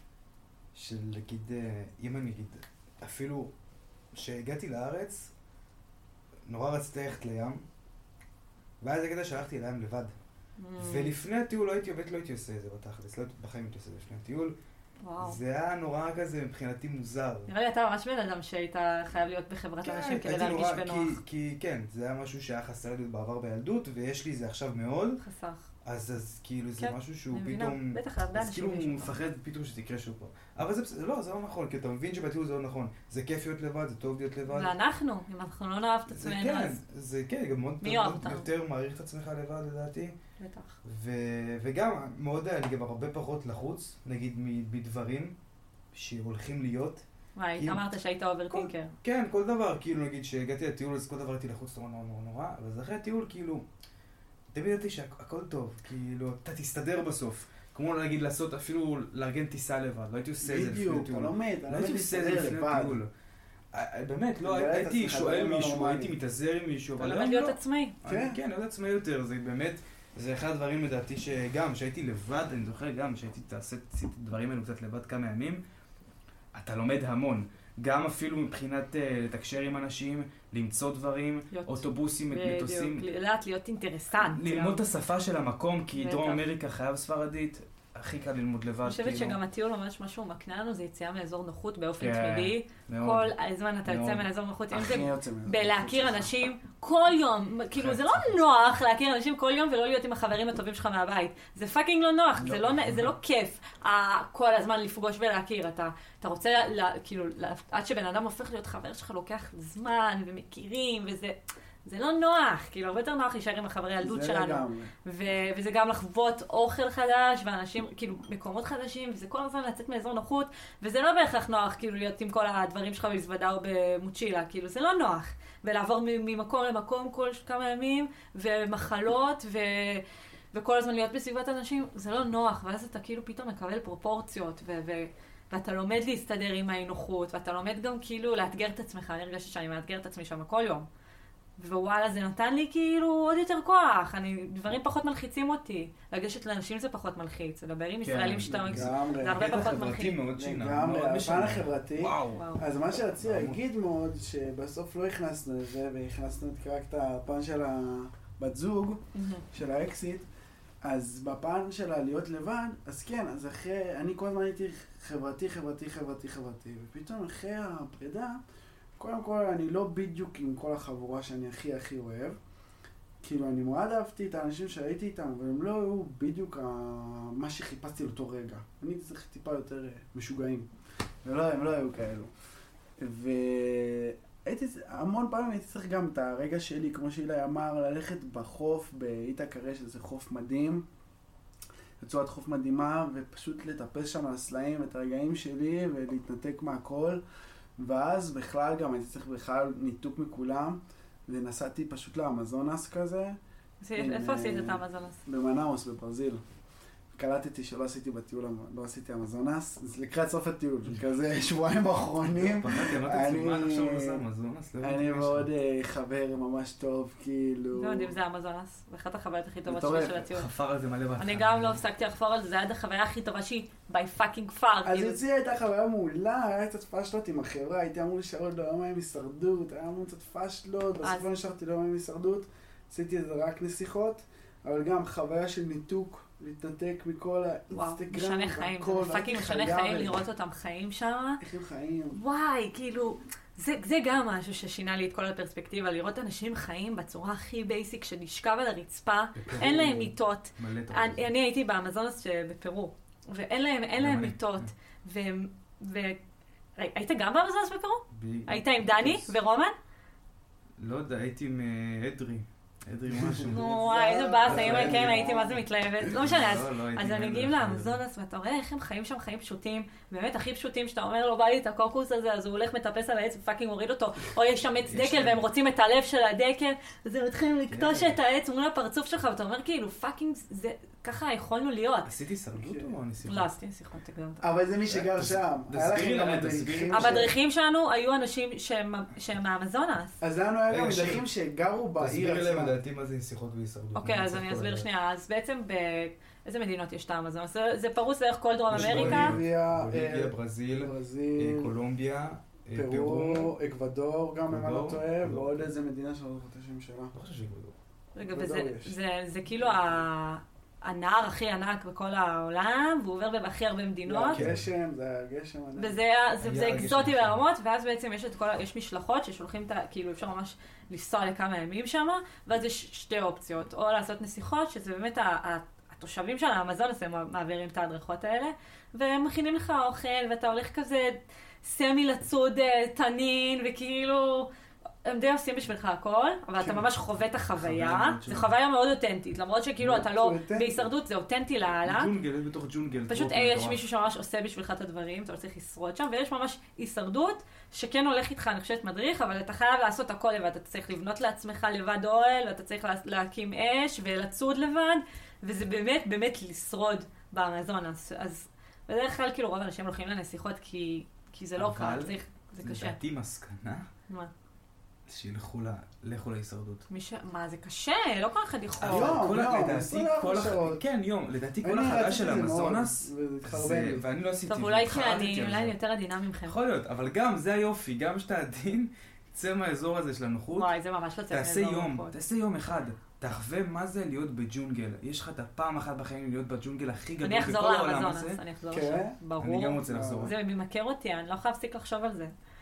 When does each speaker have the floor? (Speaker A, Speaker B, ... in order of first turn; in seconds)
Speaker A: 0.7-3.5, 4.1-5.3, 6.5-7.6, 8.8-10.1, 10.8-14.6, 15.2-17.5, 19.8-25.2, 25.8-34.7, 36.1-40.1, 40.8-45.3, 45.9-47.0, 48.5-53.6, 54.5-63.1, 63.7-75.6, 76.5-83.0, 84.2-89.4, 92.0-93.3, 93.8-94.2, 97.8-98.3, 102.4-103.1, 148.0-152.5, 153.2-153.6, 212.3-215.5, 220.3-221.8, 249.3-251.2, 254.0-254.7, 258.1-259.3, 260.8-263.7, 264.4-265.4, 266.1-268.0, 274.9-275.4, 277.7-278.1, 282.1-283.5, 284.9-287.3, 290.7-291.2, 292.0-294.9, 298.7-303.5, 304.5-305.7, 307.1-307.7, 314.3-314.7, 316.4-317.4, 337.6-338.5, 341.8-343.8, 361.6-363.8, 365.1-366.8, 368.8-375.7, 376.5-380.7, 381.3-388.4, 389.4-390.3
Speaker B: 10.6-11.1, 15.0-15.4, 17.5-21.2, 25.2-25.7, 26.8-29.1, 34.5-36.8, 37.8-38.5, 40.4-40.8, 47.4-48.9, 67.0-68.0, 81.5-84.8, 86.0-86.4, 88.8-140.9, 141.6-150.2, 152.3-152.6, 159.1-159.4, 203.8-205.2, 217.7-220.5, 221.2-225.2, 237.7-241.4, 242.1-256.2, 256.8-259.7, 263.5-282.1, 283.2-284.4, 286.9-290.2, 293.9-299.3, 308.1-314.4, 315.8-334.5, 335.0-342.1, 343.1-363.0, 366.9-369.2, 374.5-376.6, 380.5-382.1, 387.2-392.3
Speaker C: 60.4-63.0, 64.4-66.1, 68.0-68.4, 94.7-96.3, 114.0-114.9, 148.5-149.4, 150.4-160.2, 160.8-168.4, 169.0-172.4, 173.2-180.7, 181.2-182.3, 183.0-190.9, 192.0-197.2, 197.8-203.4, 203.9-206.4, 207.1-214.2, 214.8-218.1, 219.7-220.2, 224.8-240.2, 241.4-242.2, 263.1-265.6, 282.5-282.9, 284.4-287.3, 290.2-292.7, 298.7-301.7, 302.7-307.1, 308.2-308.9, 314.1-315.9, 339.8-340.9, 368.8-370.8, 371.6-374.0, 388.7-389.2, 389.9-390.3